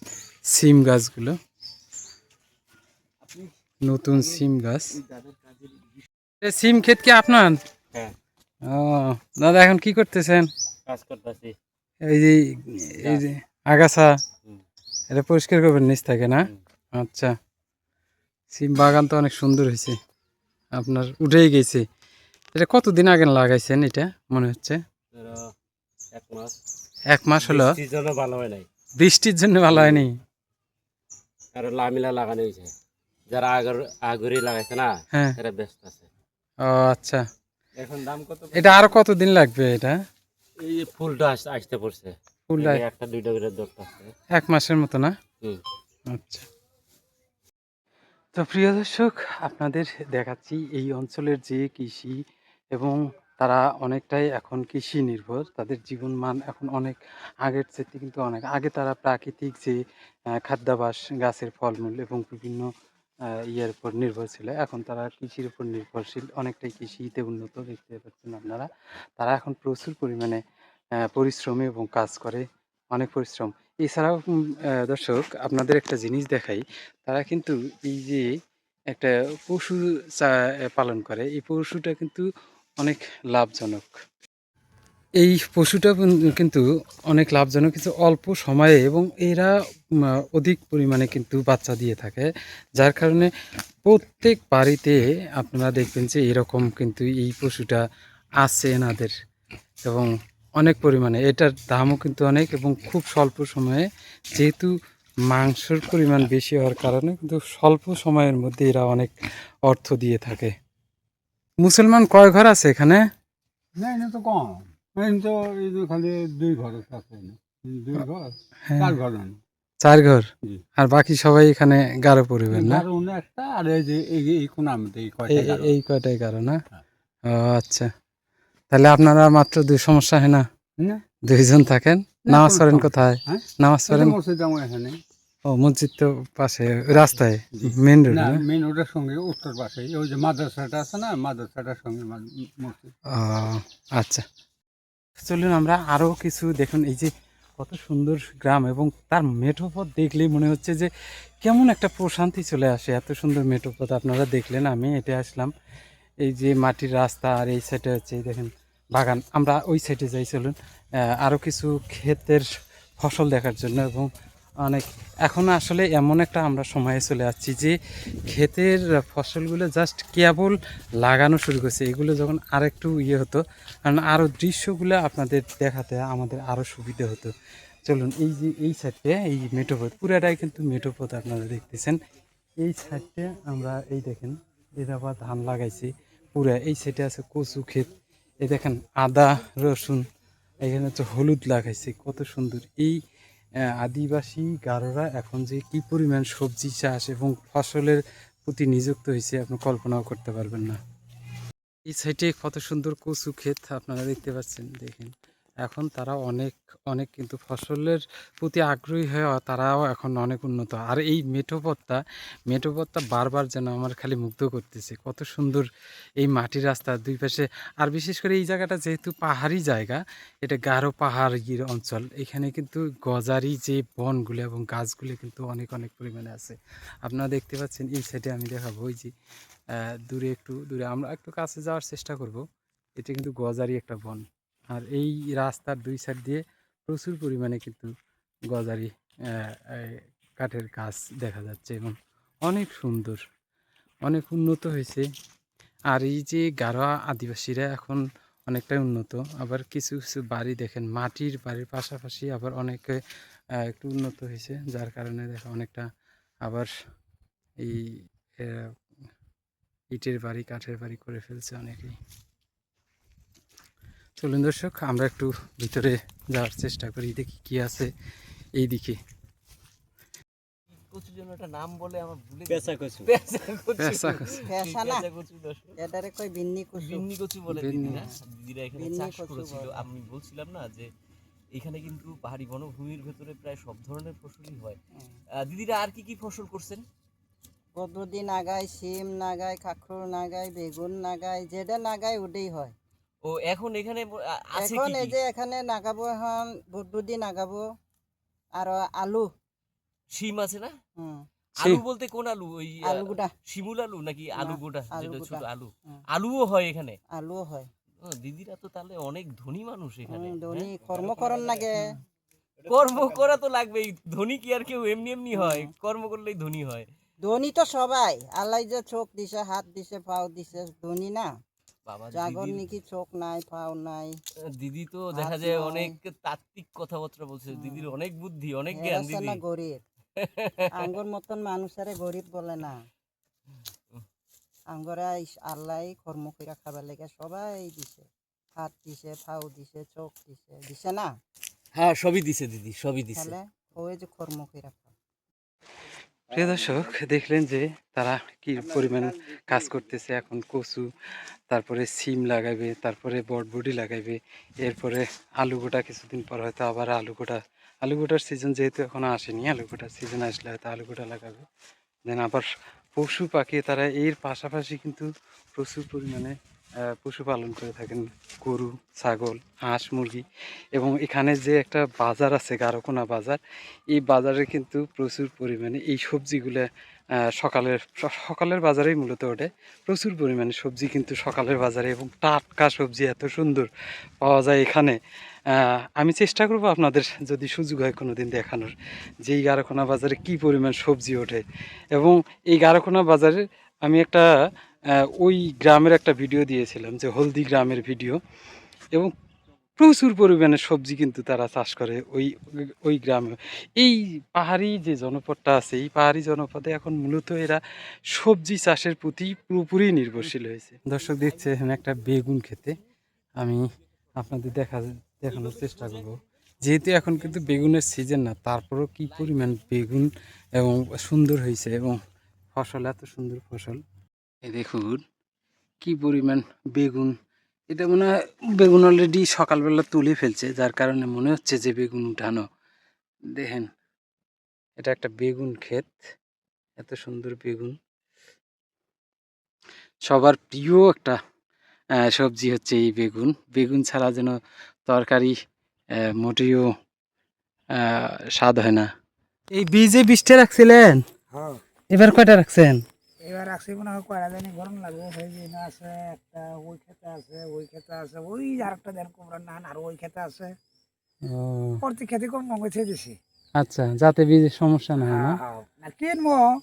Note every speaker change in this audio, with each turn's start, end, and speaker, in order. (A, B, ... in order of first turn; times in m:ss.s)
0:00.5-0:01.4 A
0:03.8-0:05.0 A
0:06.4-0:07.6 A
0:08.7-0:10.5 A
0:10.9-0:11.5 B
0:12.1-0:14.1 A
0:15.1-0:17.3 A
0:18.5-0:20.0 A
0:20.8-0:21.8 A
0:22.5-0:24.8 A
0:25.1-0:25.4 B
0:26.1-0:26.5 B
0:27.1-0:27.8 A
0:27.4-0:28.6 B
0:29.0-0:30.1 A
0:29.7-0:30.0 B
0:31.5-0:32.7 B
0:33.3-0:36.1 B
0:36.6-0:37.2 A
0:37.8-0:38.9 B
0:38.5-0:40.0 A
0:40.6-0:44.1 B
0:42.5-0:42.8 A
0:44.4-0:45.1 A
0:46.1-0:46.5 A
0:48.3-0:52.2 A
0:52.7-0:59.8 A
1:00.4-1:02.7 A
1:03.5-1:08.7 A
1:09.2-1:10.4 A
1:11.0-1:18.3 A
1:18.9-1:22.3 A
1:22.8-1:24.0 A
1:25.2-1:29.6 A
1:30.2-1:33.3 A
1:33.9-1:37.8 A
1:38.4-1:39.1 A
1:39.8-1:44.7 A
1:45.3-1:49.1 A
1:49.7-1:50.5 A
1:51.6-1:53.1 A
1:53.8-1:59.4 C
1:58.7-1:58.9 A
1:59.8-2:02.8 A
2:02.5-2:05.8 C
2:05.3-2:06.6 A
2:07.3-2:07.9 A
2:08.7-2:10.4 A
2:11.3-2:14.2 A
2:12.3-2:15.0 C
2:15.5-2:18.4 A
2:17.6-2:22.9 C
2:23.1-2:24.2 A
2:25.2-2:30.9 A
2:31.4-2:35.5 A
2:36.2-2:42.5 A
2:43.0-2:44.1 A
2:44.6-2:47.8 A
2:48.3-2:57.3 A
2:57.9-3:02.0 A
3:02.6-3:07.9 A
3:08.4-3:10.0 A
3:10.6-3:13.0 A
3:13.7-3:20.8 A
3:21.9-3:25.1 A
3:25.6-3:35.7 A
3:36.2-3:49.1 A
3:49.8-3:52.4 A
3:53.0-3:57.9 A
3:58.5-4:03.2 A
4:04.0-4:05.1 A
4:05.9-4:13.0 A
4:13.6-4:15.9 A
4:17.6-4:18.7 A
4:19.9-4:22.0 A
4:24.2-4:27.9 A
4:28.6-4:29.0 A
4:30.7-4:35.8 D
4:32.5-4:33.1 B
4:33.8-4:34.4 A
4:34.4-4:35.1 E
4:35.8-4:37.1 E
4:36.8-4:40.9 D
4:37.5-4:38.0 A
4:38.8-4:39.9 E
4:41.5-4:44.8 D
4:45.4-4:46.9 D
4:47.8-4:52.8 E
4:53.2-4:55.2 D
4:54.5-4:57.6 E
4:58.6-4:59.3 E
5:00.1-5:00.8 D
5:01.0-5:01.2 E
5:01.6-5:07.0 D
5:02.8-5:03.3 E
5:04.4-5:06.0 E
5:07.1-5:07.7 E
5:08.0-5:10.7 D
5:10.1-5:11.9 E
5:12.7-5:16.9 D
5:15.3-5:15.7 E
5:17.2-5:21.3 E
5:21.9-5:22.7 D
5:22.1-5:24.2 E
5:24.5-5:29.4 D
5:25.1-5:26.0 E
5:27.5-5:28.0 E
5:28.7-5:29.8 E
5:30.2-5:30.8 D
5:30.8-5:32.8 E
5:34.7-5:41.1 E
5:41.8-5:43.3 D
5:43.2-5:44.9 E
5:46.3-5:50.9 A
5:51.5-6:01.5 A
6:02.1-6:06.4 A
6:06.9-6:13.4 A
6:14.0-6:16.7 A
6:17.2-6:23.7 A
6:24.2-6:25.0 A
6:25.5-6:28.7 A
6:29.2-6:31.4 A
6:32.0-6:34.3 A
6:35.0-6:38.2 A
6:39.8-6:52.8 A
6:53.4-6:53.6 A
6:54.2-7:02.0 A
7:02.6-7:03.8 A
7:04.4-7:05.0 A
7:05.8-7:07.2 A
7:07.7-7:12.4 A
7:13.4-7:13.7 A
7:14.8-7:16.0 A
7:16.8-7:17.8 A
7:20.1-7:21.2 A
7:22.0-7:25.4 A
7:26.0-7:26.7 A
7:27.8-7:28.9 A
7:29.5-7:31.0 A
7:31.3-7:31.6 F
7:31.9-7:32.8 A
7:33.2-7:40.5 F
7:41.3-7:41.8 A
7:41.8-7:43.2 F
7:43.6-7:45.4 A
7:45.0-7:46.5 F